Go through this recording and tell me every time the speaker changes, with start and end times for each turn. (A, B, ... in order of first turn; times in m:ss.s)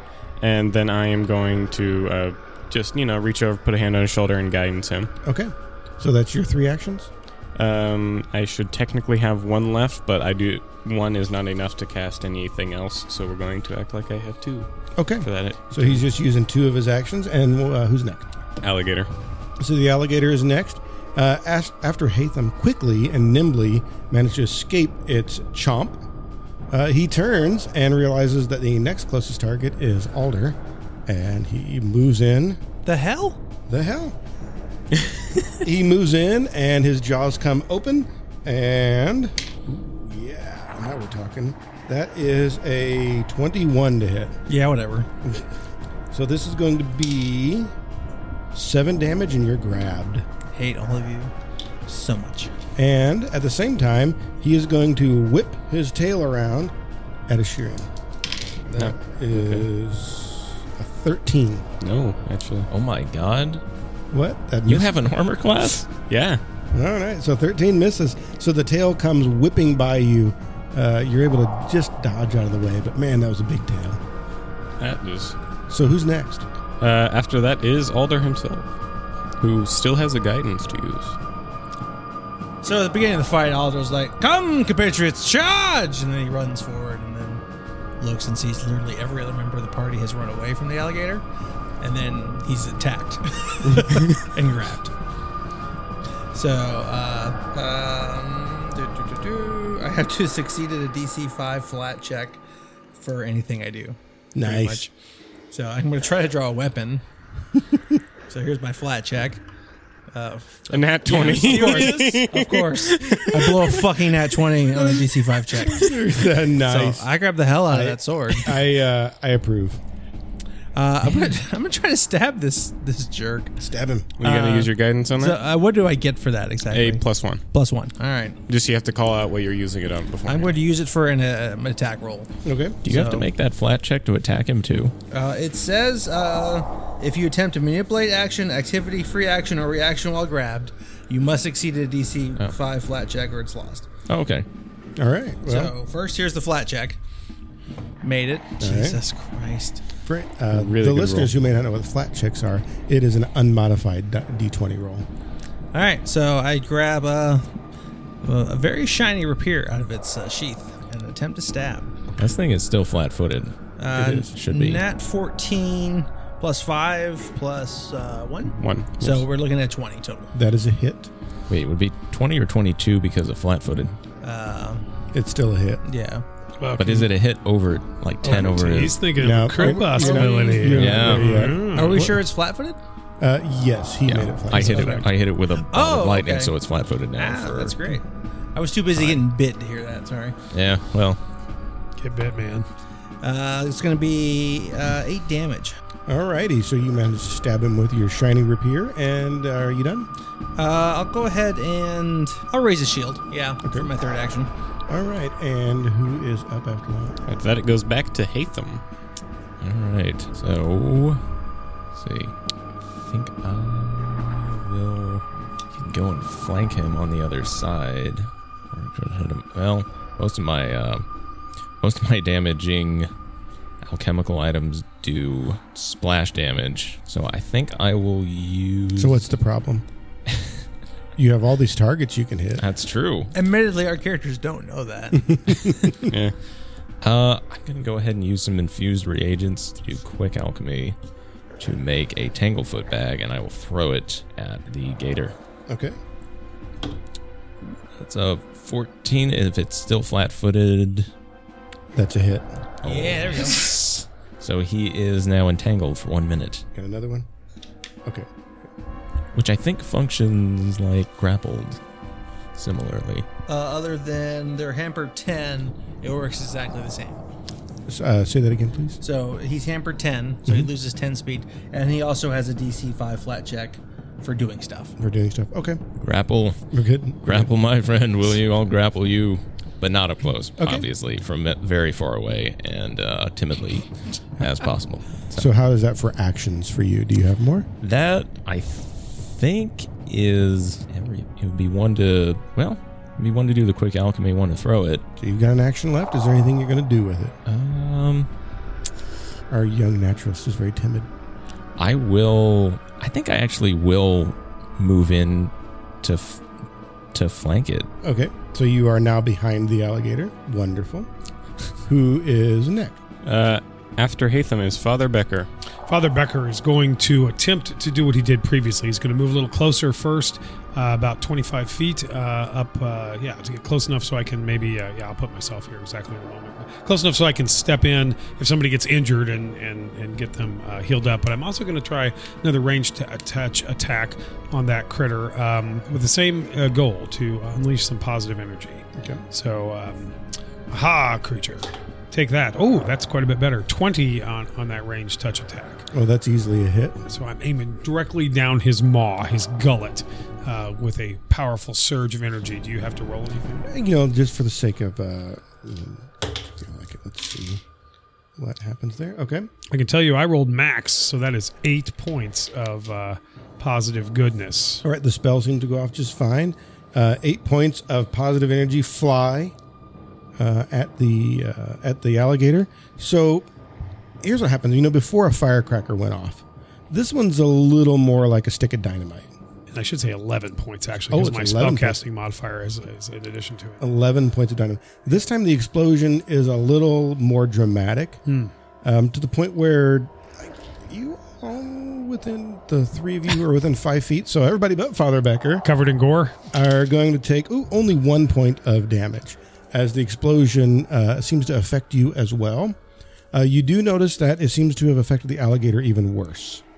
0:00.4-0:05.1 A
0:05.2-0:07.1 B
0:07.5-0:16.0 A
0:15.0-0:18.3 B
0:18.6-0:19.1 A
0:19.6-0:26.0 B
0:26.7-0:32.6 B
0:32.8-0:33.4 C
0:33.7-0:34.1 B
0:35.6-0:44.4 B
0:44.5-0:45.1 C
0:46.1-0:47.7 B
0:48.5-0:50.2 B
0:50.5-0:51.3 C
0:51.8-0:52.5 C
0:52.8-0:56.7 B
0:57.3-0:57.9 B
0:58.7-1:01.6 B
0:58.8-0:59.7 A
1:01.8-1:02.7 A
1:02.7-1:03.6 D
1:04.1-1:05.1 B
1:04.6-1:05.9 D
1:06.1-1:06.4 A
1:06.7-1:14.0 B
1:14.8-1:15.4 A
1:15.7-1:16.5 B
1:16.8-1:18.7 A
1:19.4-1:21.2 A
1:22.6-1:27.4 C
1:28.0-1:31.2 C
1:31.8-1:34.9 C
1:36.3-1:42.4 C
1:43.0-1:44.9 C
1:44.3-1:44.9 B
1:45.5-1:47.0 C
1:48.3-1:49.4 C
1:50.1-1:55.9 C
1:50.7-1:53.9 A
1:54.9-1:57.1 B
1:56.6-1:58.6 C
1:57.6-1:59.8 B
2:00.7-2:03.5 C
2:03.6-2:04.1 B
2:04.2-2:05.4 A
2:04.2-2:08.4 C
2:06.7-2:07.4 A
2:08.5-2:10.6 A
2:10.3-2:12.3 C
2:12.4-2:12.8 B
2:12.8-2:14.9 D
2:12.8-2:13.3 C
2:15.1-2:23.8 C
2:24.1-2:24.4 D
2:25.0-2:25.7 B
2:25.4-2:27.0 C
2:28.0-2:29.8 C
2:28.6-2:29.0 B
2:30.0-2:35.0 B
2:30.5-2:31.4 A
2:35.7-2:37.4 C
2:38.2-2:41.9 C
2:42.2-2:44.8 D
2:43.8-2:50.3 C
2:43.9-2:44.2 B
2:48.5-2:49.2 A
2:50.3-2:51.1 B
2:51.5-2:54.0 D
2:54.2-2:54.9 C
2:55.1-2:55.8 B
2:55.8-2:56.2 C
2:56.6-2:57.1 E
2:56.8-2:59.0 D
2:58.2-3:02.1 E
2:59.2-3:02.2 B
2:59.6-3:00.8 C
3:00.7-3:01.6 D
3:01.5-3:02.8 C
3:03.2-3:05.1 B
3:04.0-3:08.0 D
3:04.6-3:05.0 C
3:05.6-3:06.5 C
3:07.2-3:10.4 C
3:09.0-3:09.2 D
3:10.5-3:11.2 D
3:12.0-3:12.7 E
3:13.2-3:15.8 C
3:16.1-3:20.1 B
3:20.6-3:24.5 C
3:23.6-3:23.9 B
3:24.9-3:27.2 B
3:27.3-3:28.8 A
3:29.6-3:31.2 D
3:31.9-3:32.3 D
3:33.0-3:41.0 D
3:41.8-3:43.1 D
3:43.8-3:49.2 D
3:49.0-3:49.8 B
3:51.2-3:52.6 B
3:52.6-3:53.3 D
3:53.3-3:55.4 C
3:55.1-3:56.1 B
3:56.0-3:56.4 A
3:57.0-4:01.0 D
4:01.6-4:05.3 D
4:05.7-4:06.0 B
4:08.0-4:11.1 D
4:11.9-4:12.5 B
4:12.8-4:16.6 D
4:12.8-4:13.7 C
4:16.7-4:17.3 B
4:19.3-4:21.8 D
4:22.6-4:23.3 D
4:23.5-4:27.2 C
4:27.8-4:29.0 B
4:29.0-4:35.0 C
4:35.0-4:35.8 B
4:36.0-4:36.6 D
4:36.7-4:37.5 B
4:37.2-4:45.5 D
4:40.6-4:40.8 B
4:45.3-4:47.7 B
4:47.8-4:55.0 D
4:55.2-4:57.3 B
4:57.4-4:58.3 D
4:59.5-5:01.1 B
5:01.8-5:06.4 D
5:07.1-5:07.9 D
5:08.0-5:11.1 B
5:11.8-5:13.0 B
5:13.2-5:15.5 A
5:15.9-5:40.2 E
5:39.0-5:39.2 B
5:40.7-5:45.9 E
5:45.9-5:47.0 B
5:47.1-5:53.6 E
5:53.6-5:57.6 B
5:58.4-5:59.5 B
5:59.7-6:04.8 E
6:04.8-6:09.5 B
6:10.4-6:13.5 B
6:14.2-6:19.3 B
6:19.7-6:23.8 E
6:21.1-6:22.0 B
6:23.8-6:28.2 B
6:28.8-6:35.6 B
6:35.6-6:36.3 E
6:36.5-6:42.8 B
6:43.3-6:46.6 B